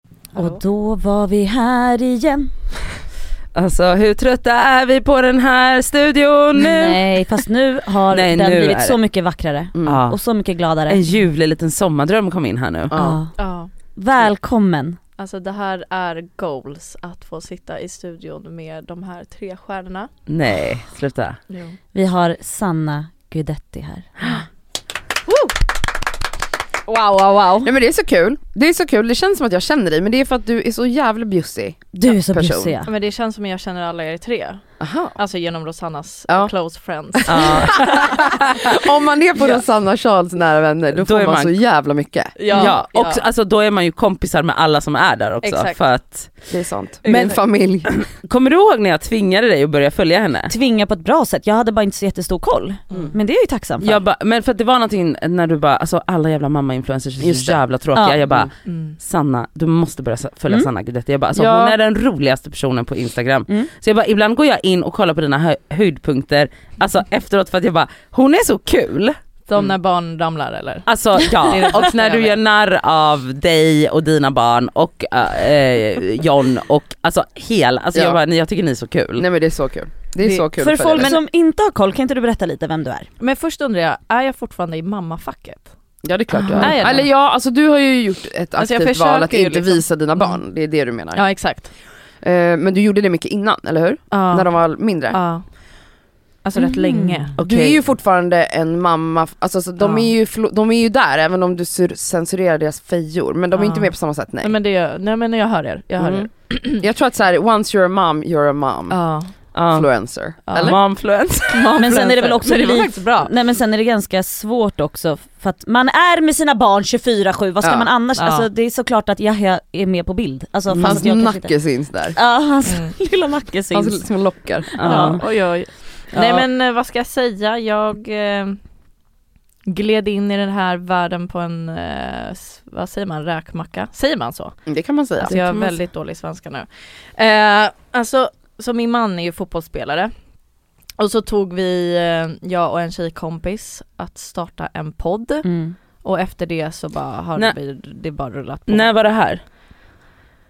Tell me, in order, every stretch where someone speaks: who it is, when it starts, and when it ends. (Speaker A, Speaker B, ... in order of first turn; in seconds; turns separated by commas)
Speaker A: 0.3-0.6, Speaker B: 0.3-2.5, Speaker C: 3.5-7.2, Speaker B: 6.6-11.0, Speaker C: 8.1-9.0, Speaker D: 9.7-10.0, Speaker C: 9.8-10.2, Speaker C: 10.9-12.9, Speaker D: 12.9-13.2, Speaker B: 12.9-13.3, Speaker A: 13.4-13.7, Speaker B: 13.9-15.0, Speaker A: 15.2-20.1, Speaker C: 20.3-21.4, Speaker A: 21.5-21.8, Speaker B: 21.9-24.4, Speaker A: 25.3-25.5, Speaker A: 26.9-27.7, Speaker D: 27.6-32.8, Speaker B: 31.9-32.9, Speaker A: 32.8-38.1, Speaker D: 34.8-35.1, Speaker D: 37.1-42.5, Speaker C: 37.3-38.4, Speaker C: 41.0-41.6, Speaker A: 42.4-43.2, Speaker C: 42.5-46.5, Speaker A: 45.4-45.8, Speaker D: 46.5-48.0, Speaker A: 47.0-47.4, Speaker C: 47.0-50.5, Speaker B: 50.5-54.0, Speaker C: 53.8-69.2, Speaker D: 57.2-57.6, Speaker B: 57.9-58.2, Speaker A: 58.6-59.0, Speaker D: 61.3-61.8, Speaker A: 69.5-72.4, Speaker C: 70.8-79.2, Speaker D: 79.2-81.1, Speaker A: 80.2-81.2, Speaker B: 80.6-83.1, Speaker A: 83.2-85.7, Speaker D: 86.0-91.2, Speaker A: 86.3-87.1, Speaker A: 88.5-90.4, Speaker A: 91.1-91.7, Speaker D: 92.2-95.2, Speaker A: 94.1-95.5, Speaker A: 96.4-97.8, Speaker B: 96.9-97.2, Speaker D: 97.4-104.5, Speaker A: 99.8-100.1, Speaker A: 103.5-106.8, Speaker D: 106.0-109.0, Speaker A: 108.9-109.3, Speaker D: 109.5-110.8, Speaker C: 109.5-109.9, Speaker A: 110.5-111.0, Speaker C: 110.6-111.8, Speaker A: 111.5-113.3, Speaker B: 111.8-121.6, Speaker D: 117.6-117.9, Speaker A: 118.1-118.5, Speaker C: 120.7-121.0, Speaker D: 120.8-122.2, Speaker B: 122.1-124.0, Speaker A: 122.6-123.0, Speaker D: 123.7-124.7, Speaker B: 124.7-125.2, Speaker C: 124.8-125.2, Speaker A: 124.8-128.6, Speaker A: 129.7-140.1, Speaker D: 134.7-135.3, Speaker C: 135.3-135.7, Speaker A: 141.0-148.9, Speaker B: 145.4-145.8, Speaker C: 148.7-149.4